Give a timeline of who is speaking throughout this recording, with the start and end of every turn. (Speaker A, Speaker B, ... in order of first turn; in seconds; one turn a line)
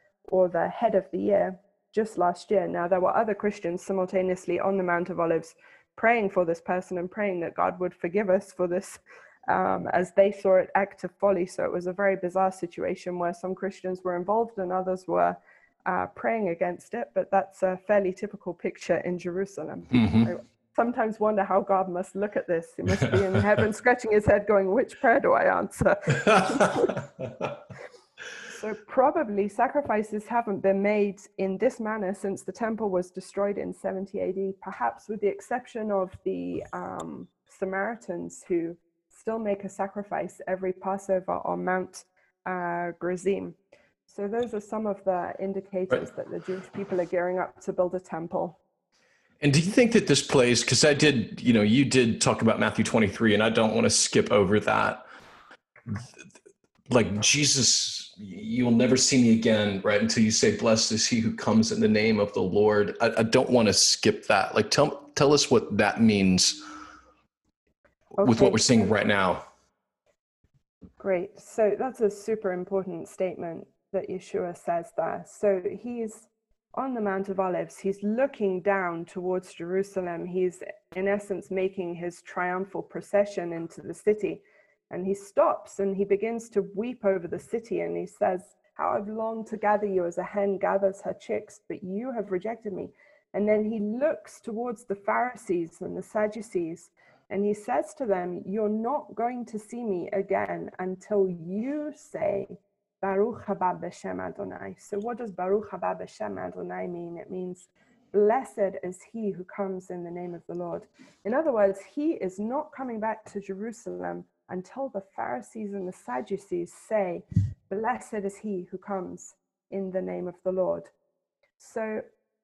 Speaker A: 0.3-27.0
Speaker B: 19.9-20.3
Speaker B: 26.5-26.9
Speaker A: 28.5-43.6
Speaker A: 44.1-48.6
Speaker B: 49.4-55.0
Speaker B: 56.9-66.6
Speaker A: 68.2-68.8
Speaker B: 68.2-69.4
Speaker A: 71.0-120.9
Speaker A: 121.6-122.0